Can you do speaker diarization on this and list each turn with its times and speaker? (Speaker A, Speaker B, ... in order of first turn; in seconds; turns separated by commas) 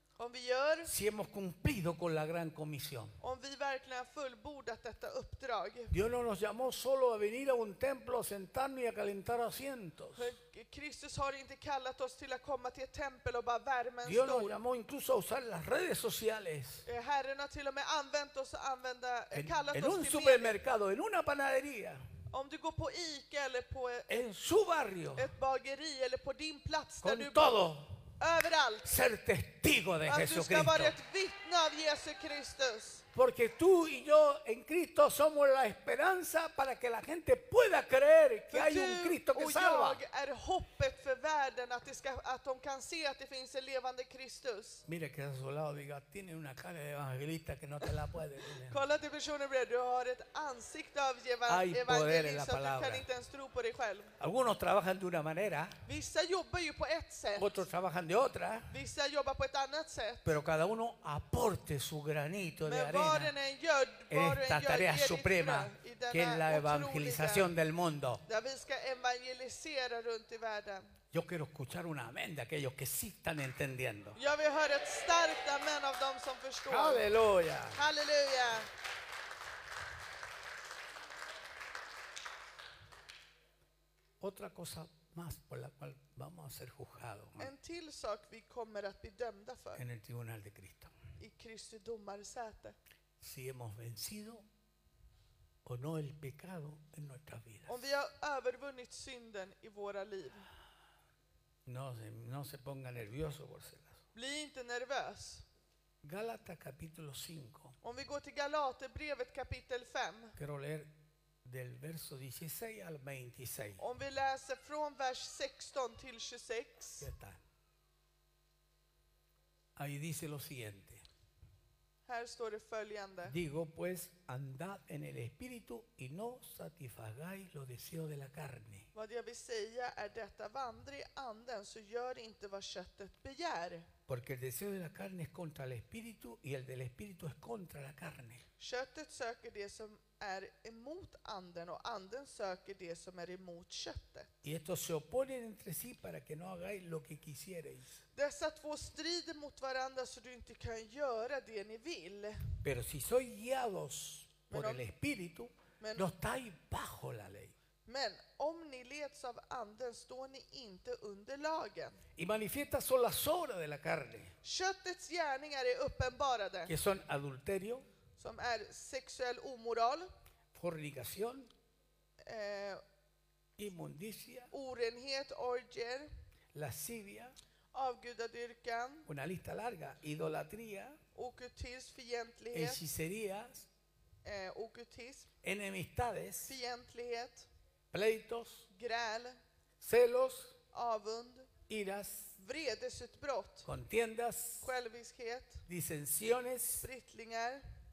Speaker A: 0.2-0.9, Speaker B: 0.8-3.2, Speaker A: 3.2-5.9, Speaker B: 5.9-10.3, Speaker A: 10.2-14.6, Speaker B: 14.0-16.9, Speaker A: 16.9-20.6, Speaker B: 19.3-22.0, Speaker A: 22.3-24.2, Speaker B: 24.1-25.3, Speaker A: 25.1-27.6, Speaker B: 27.0-28.1, Speaker A: 28.2-28.9, Speaker B: 28.8-30.9, Speaker A: 30.1-33.0, Speaker B: 33.1-40.0, Speaker A: 38.5-44.8, Speaker B: 44.9-48.8, Speaker A: 48.7-54.1, Speaker B: 51.5-53.0, Speaker B: 54.2-55.8, Speaker A: 55.9-57.6, Speaker B: 57.4-58.8, Speaker A: 58.7-60.3, Speaker B: 60.2-63.3, Speaker A: 62.6-67.5, Speaker B: 64.1-68.2, Speaker A: 68.2-71.0, Speaker B: 71.1-74.2, Speaker A: 74.2-77.0, Speaker B: 76.7-77.8, Speaker A: 77.7-78.7, Speaker B: 84.2-87.5, Speaker A: 87.4-89.8, Speaker B: 89.7-90.9, Speaker A: 91.2-92.8, Speaker B: 93.2-94.4, Speaker B: 95.6-97.8, Speaker A: 97.7-100.5, Speaker B: 101.7-104.0, Speaker A: 104.1-105.4, Speaker B: 106.0-107.8, Speaker A: 107.8-110.4, Speaker B: 110.4-113.8, Speaker A: 113.8-117.1, Speaker B: 117.0-117.4, Speaker B: 119.8-121.0, Speaker A: 122.0-123.3, Speaker B: 123.2-128.9, Speaker A: 128.9-133.9, Speaker B: 134.1-138.4, Speaker A: 138.6-144.3, Speaker B: 144.4-148.0, Speaker A: 148.1-152.6, Speaker B: 152.6-157.5, Speaker A: 154.5-154.8, Speaker A: 155.8-156.1, Speaker A: 157.8-162.0, Speaker B: 162.2-164.3, Speaker A: 164.4-166.7, Speaker B: 166.7-167.8, Speaker A: 168.2-170.1, Speaker B: 170.5-171.5, Speaker A: 172.2-172.8, Speaker B: 173.6-174.5, Speaker A: 174.5-176.1, Speaker B: 176.5-177.3, Speaker A: 177.7-179.1, Speaker B: 179.1-181.0, Speaker A: 181.1-182.8, Speaker B: 182.5-183.7, Speaker A: 184.2-185.3, Speaker B: 185.4-186.6, Speaker A: 186.4-187.5, Speaker B: 187.9-188.7, Speaker A: 188.7-189.4, Speaker B: 189.8-190.6, Speaker A: 190.7-191.5, Speaker B: 191.7-192.4, Speaker A: 192.4-193.7, Speaker B: 193.6-194.7, Speaker A: 194.6-195.7, Speaker B: 195.7-196.9, Speaker A: 196.8-197.7